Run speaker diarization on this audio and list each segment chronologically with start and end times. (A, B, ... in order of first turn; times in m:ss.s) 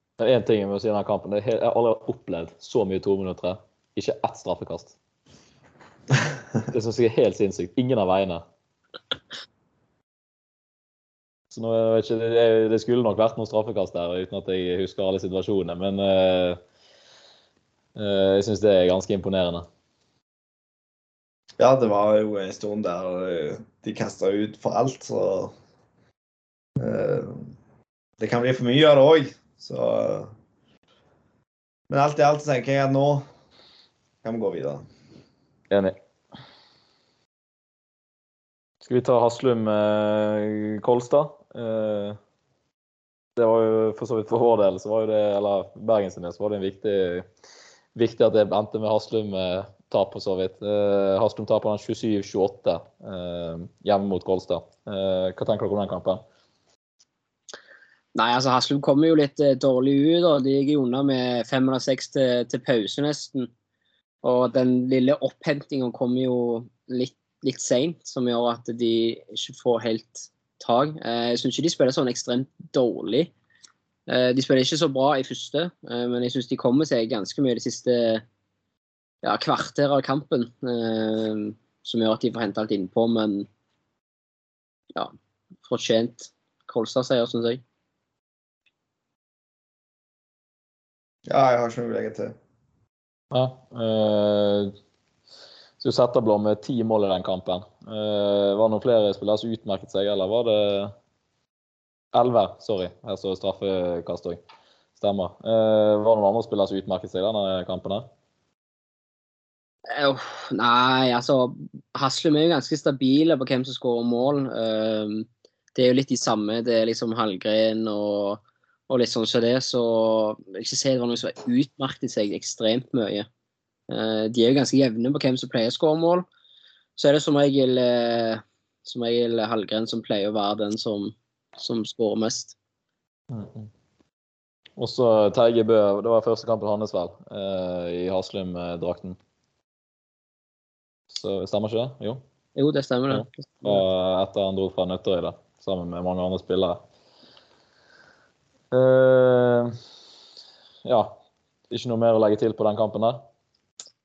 0:00.2-0:05.0 A
0:06.7-0:08.4 A
0:11.5-0:16.6 A
0:18.0-0:19.7 A
0:21.6-0:25.6 B
0:26.8-0:27.5 B
0:28.2-0:30.3 B
0:31.9-0:33.3 B
0:34.2-0:34.9 B
0:35.7-0:36.0 A
0:38.8-0:42.2 A
0:43.4-0:47.3 A
0:48.0-0:56.2 A
0:58.2-1:03.5 C
1:04.2-1:13.3 C
1:14.1-1:18.2 C
1:19.2-1:23.5 C
1:25.6-1:27.6 C
1:31.3-1:32.4 B
1:33.3-1:34.7 A
1:35.8-1:40.9 A
1:42.1-1:44.4 A
1:45.0-1:48.1 A
1:49.9-2:03.3 C
2:03.9-2:06.3 C
2:07.0-2:12.6 C
2:13.3-2:13.7 A
2:14.8-2:19.2 A
2:21.1-2:22.2 A
2:22.6-2:23.8 C
2:23.1-2:26.8 A
2:28.7-2:29.8 A
2:30.8-2:31.2 A
2:31.7-2:33.2 A